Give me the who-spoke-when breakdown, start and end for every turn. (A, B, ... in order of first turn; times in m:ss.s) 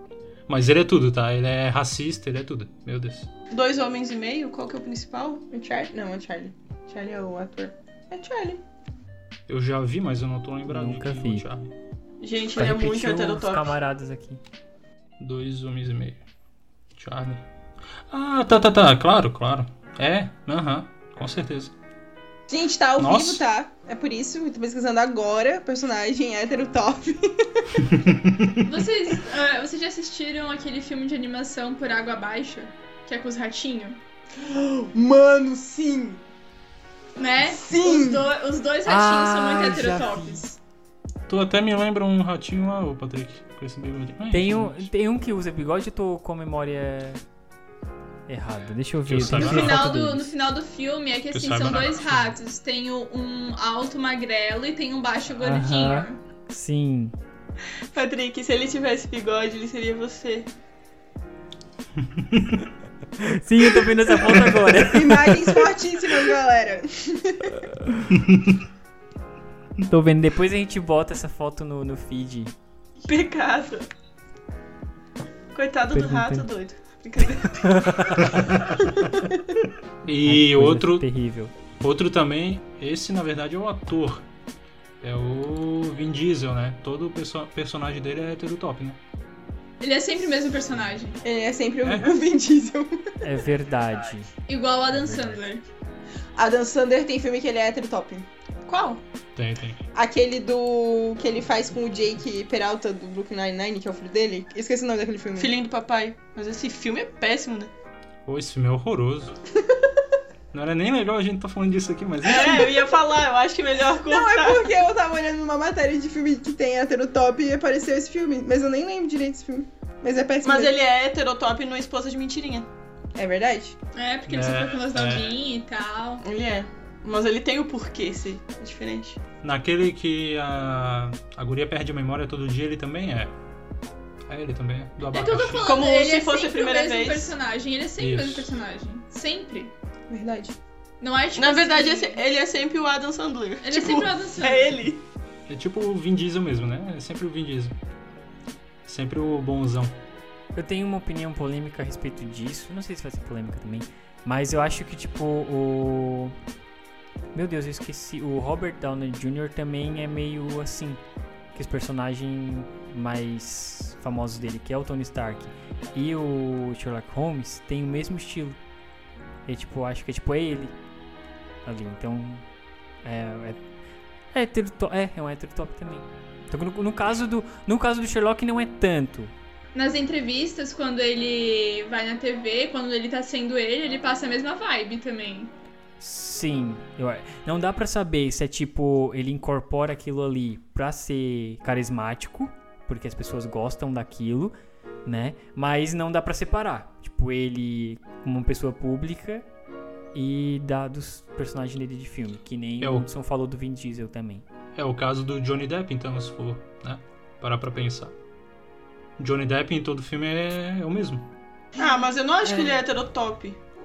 0:00.5-0:03.3 A
0:03.5-0:05.4 B
0:05.5-0:08.6 C
0:09.5-0:11.7 A
0:10.7-0:11.4 D
0:12.2-0:13.7 B
0:12.6-0:14.4 D
0:15.2-0:16.2 A
0:16.9-0:17.4 A
0:18.1-0:21.7 A
0:22.5-0:27.8 C
0:23.0-0:23.4 A
0:27.9-0:28.7 A
0:28.6-0:34.0 E
0:34.4-0:36.2 C
0:37.2-0:40.6 E
0:37.4-0:38.3 C
0:38.8-0:40.4 D
0:41.3-0:44.9 A
0:44.3-0:47.2 D
0:48.3-0:50.3 D
0:49.1-0:49.9 A
0:49.3-0:56.2 E
0:51.3-0:52.3 A
0:55.4-0:57.1 D
0:57.9-1:00.5 B
1:02.0-1:02.6 A
1:03.2-1:05.6 D
1:04.8-1:07.5 C
1:07.6-1:08.1 D
1:08.1-1:08.6 A
1:09.9-1:12.5 D
1:13.0-1:13.9 B
1:15.5-1:18.0 B
1:15.9-1:16.5 D
1:17.5-1:18.4 D
1:18.2-1:18.9 A
1:20.0-1:21.1 A
1:20.2-1:21.5 D
1:21.8-1:24.2 A
1:25.0-1:29.0 A
1:29.8-1:31.2 E
1:31.2-1:33.1 C
1:31.8-1:32.1 A
1:33.2-1:34.3 D
1:34.5-1:35.6 E
1:34.9-1:35.3 D
1:36.4-1:38.3 C
1:38.7-1:39.0 B
1:39.4-1:39.8 A
1:39.9-1:45.5 C
1:45.4-1:47.7 B
1:48.2-1:49.3 A
1:50.5-1:52.8 A
1:52.2-1:54.7 B
1:54.0-2:00.7 C
2:00.4-2:02.7 B
2:03.2-2:03.8 C
2:03.9-2:06.2 E
2:04.3-2:05.3 A
2:06.2-2:09.2 B
2:09.4-2:13.3 A
2:14.3-2:15.7 A
2:15.1-2:19.7 E
2:15.6-2:17.3 B
2:18.0-2:18.5 A
2:20.1-2:20.6 C
2:21.0-2:22.2 E
2:21.4-2:25.0 B
2:23.6-2:24.8 E
2:25.5-2:27.7 A
2:28.8-2:29.9 A
2:30.5-2:36.3 D
2:37.3-2:41.0 D
2:41.5-2:48.6 D
2:49.4-2:50.7 D
2:51.6-2:52.4 D
2:53.0-2:53.6 D
2:54.3-2:59.3 D
2:59.7-3:05.5 E
3:06.0-3:19.4 D
3:20.1-3:24.4 D
3:22.8-3:23.1 A
3:24.8-3:28.1 A
3:29.2-3:31.2 A
3:31.8-3:33.6 B